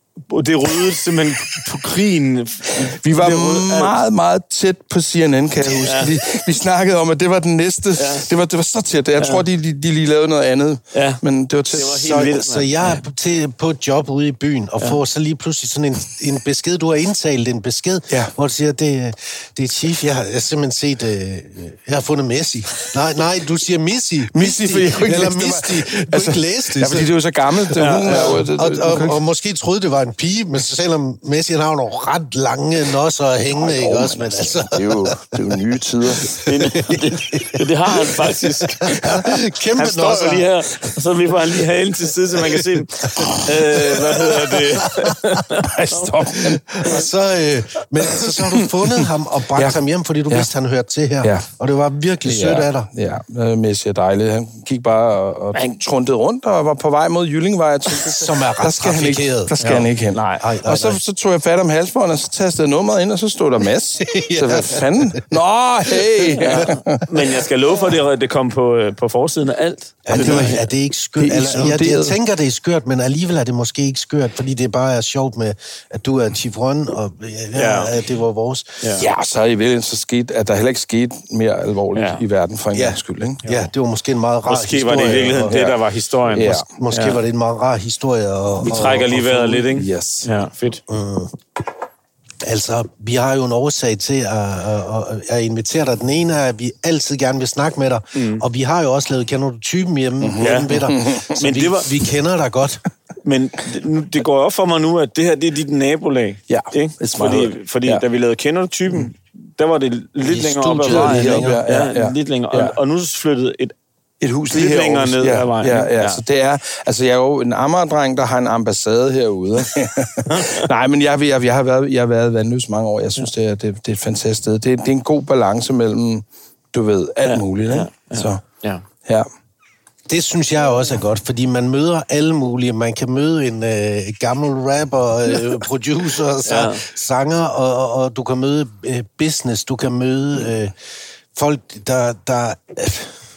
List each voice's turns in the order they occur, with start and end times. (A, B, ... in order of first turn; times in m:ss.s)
0:00.3-0:04.0 A
0:02.8-0:12.2 B
0:05.8-0:06.2 A
0:08.0-0:08.3 A
0:09.2-0:09.4 A
0:10.9-0:13.0 A
0:12.0-0:27.1 C
0:24.3-0:29.2 B
0:27.8-0:28.4 A
0:28.0-0:35.4 C
0:33.5-0:36.4 B
0:36.3-0:40.5 C
0:36.4-0:46.1 A
0:43.2-0:45.2 C
0:45.6-0:47.1 B
0:46.4-0:52.9 C
0:48.0-0:49.8 B
0:51.2-0:51.5 B
0:52.2-1:07.1 B
0:57.9-0:59.6 C
0:59.6-1:00.4 A
1:00.4-1:01.0 C
1:04.0-1:05.2 C
1:06.3-1:10.6 A
1:10.0-1:18.8 C
1:10.1-1:10.6 B
1:11.2-1:12.2 B
1:17.5-1:18.0 A
1:18.8-1:19.0 A
1:19.0-1:23.4 B
1:21.9-1:22.2 A
1:22.7-1:25.6 C
1:23.4-1:23.7 A
1:24.5-1:27.2 A
1:26.3-1:26.7 B
1:26.7-1:29.6 C
1:28.6-1:30.8 A
1:28.6-1:29.0 B
1:29.7-1:30.3 B
1:30.9-1:31.4 C
1:32.4-1:42.8 C
1:38.1-1:38.4 A
1:40.2-1:41.4 B
1:40.4-1:42.0 A
1:43.2-1:53.7 A
1:46.5-1:48.0 B
1:50.2-1:51.6 C
1:50.8-1:52.7 B
1:54.2-2:08.4 B
1:54.5-1:56.2 A
2:00.3-2:00.7 A
2:07.2-2:08.8 A
2:10.1-2:20.7 C
2:16.4-2:16.8 A
2:21.3-2:23.2 C